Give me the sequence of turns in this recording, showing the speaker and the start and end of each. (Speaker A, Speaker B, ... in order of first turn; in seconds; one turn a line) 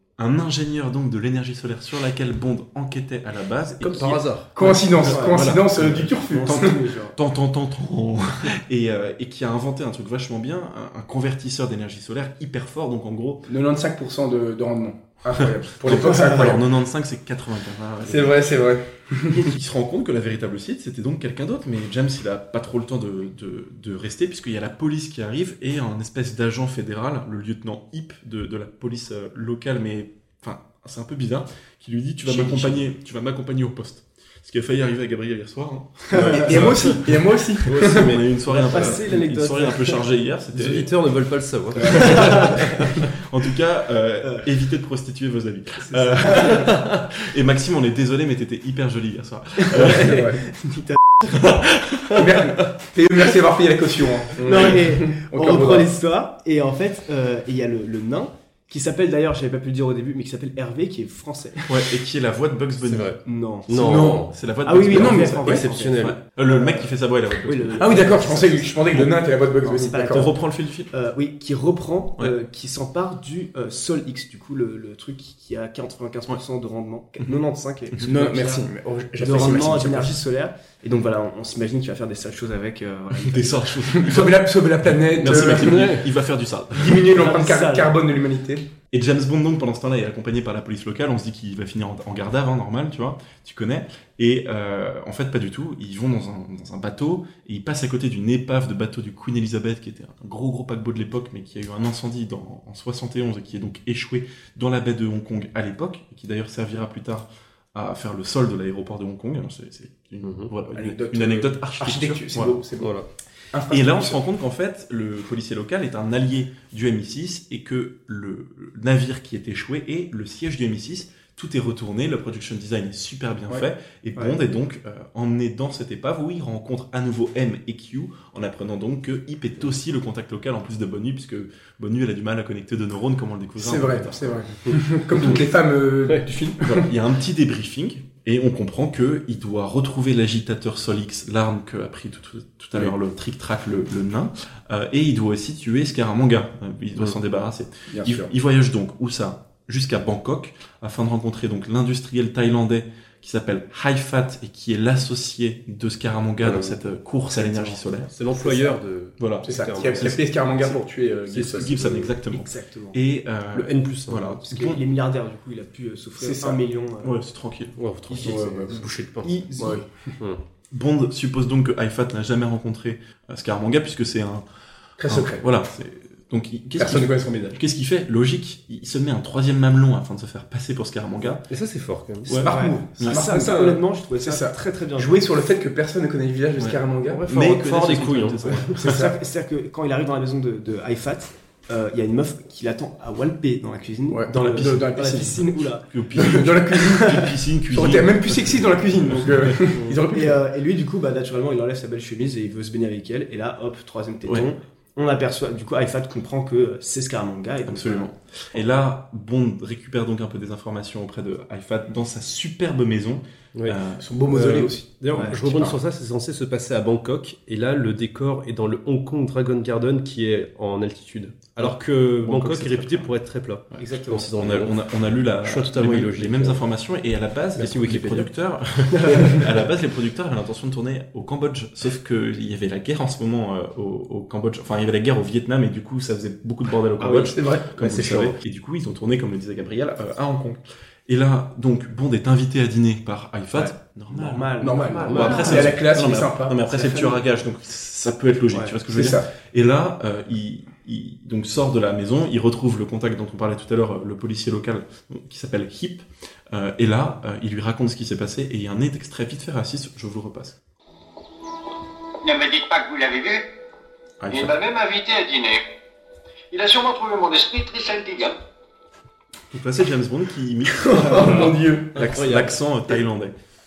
Speaker A: 0.2-13.5
Speaker B: 3.8-4.5
Speaker C: 4.5-6.8
Speaker D: 4.7-5.7
Speaker D: 6.2-7.2
Speaker C: 13.5-16.6
Speaker A: 15.8-18.4
Speaker C: 18.1-19.5
Speaker A: 19.3-40.9
Speaker C: 32.3-32.8
Speaker D: 36.1-36.6
Speaker C: 36.1-38.1
Speaker B: 36.5-36.9
Speaker B: 37.7-39.0
Speaker D: 38.5-40.1
Speaker B: 40.5-42.9
Speaker C: 41.8-42.1
Speaker D: 41.9-42.7
Speaker A: 43.1-50.2
Speaker D: 45.9-46.8
Speaker B: 46.5-46.9
Speaker D: 49.6-51.5
Speaker C: 49.9-50.4
Speaker A: 51.3-52.1
Speaker C: 52.1-55.9
Speaker B: 54.4-54.8
Speaker D: 54.4-61.7
Speaker A: 61.7-63.2
Speaker B: 62.8-64.3
Speaker D: 63.2-66.8
Speaker C: 63.7-64.3
Speaker A: 64.2-69.2
Speaker C: 64.9-65.7
Speaker B: 65.7-66.2
Speaker D: 67.4-69.0
Speaker C: 67.8-70.3
Speaker D: 69.6-84.0
Speaker A: 70.1-70.9
Speaker C: 78.0-80.2
Speaker A: 83.2-87.1
Speaker C: 84.0-86.0
Speaker B: 85.2-86.1
Speaker C: 86.7-88.7
Speaker D: 87.1-88.0
Speaker A: 88.9-112.6
Speaker B: 110.2-110.5
Speaker C: 110.7-113.0
Speaker B: 112.8-113.1
Speaker C: 113.5-114.2
Speaker A: 113.7-134.4
Speaker C: 133.6-136.9
Speaker A: 136.6-158.1
Speaker C: 147.9-148.3
Speaker B: 156.4-156.8
Speaker C: 157.3-157.8
Speaker B: 158.1-160.8
Speaker C: 158.4-158.8
Speaker A: 159.2-160.2
Speaker C: 159.4-162.0
Speaker B: 161.3-162.1
Speaker A: 161.5-164.8
Speaker D: 162.3-163.0
Speaker B: 163.5-164.4
Speaker D: 164.4-167.2
Speaker C: 166.2-166.6
Speaker A: 167.0-168.3
Speaker B: 167.8-169.5
Speaker C: 168.2-168.9
Speaker A: 169.2-169.5
Speaker C: 169.6-170.1
Speaker A: 170.7-174.4
Speaker C: 175.0-175.5
Speaker A: 175.1-181.4
Speaker C: 176.8-177.6
Speaker B: 181.4-182.4
Speaker A: 182.2-183.2
Speaker C: 182.4-183.7
Speaker D: 182.5-185.3
Speaker B: 183.3-183.8
Speaker C: 184.2-187.2
Speaker A: 186.6-188.8
Speaker B: 187.1-188.9
Speaker C: 188.8-189.2
Speaker D: 188.8-196.4
Speaker C: 194.1-195.4
Speaker A: 195.9-199.6
Speaker C: 196.2-200.4
Speaker D: 200.1-208.1
Speaker A: 207.7-214.1
Speaker C: 214.0-215.8
Speaker B: 214.3-224.8
Speaker D: 215.1-215.4
Speaker A: 221.6-223.1
Speaker A: 223.7-260.6
Speaker D: 223.8-224.3
Speaker B: 225.4-226.7
Speaker B: 227.6-228.3
Speaker D: 229.0-229.4
Speaker C: 237.0-238.2
Speaker B: 237.8-238.3
Speaker D: 243.5-245.7
Speaker C: 244.6-247.2
Speaker B: 244.9-245.8
Speaker D: 248.5-248.8
Speaker C: 248.9-249.3
Speaker E: 262.2-263.4
Speaker A: 264.2-264.6
Speaker E: 264.3-265.6
Speaker E: 266.5-268.4
Speaker A: 269.5-273.4
Speaker C: 270.9-271.9
Speaker B: 271.1-272.9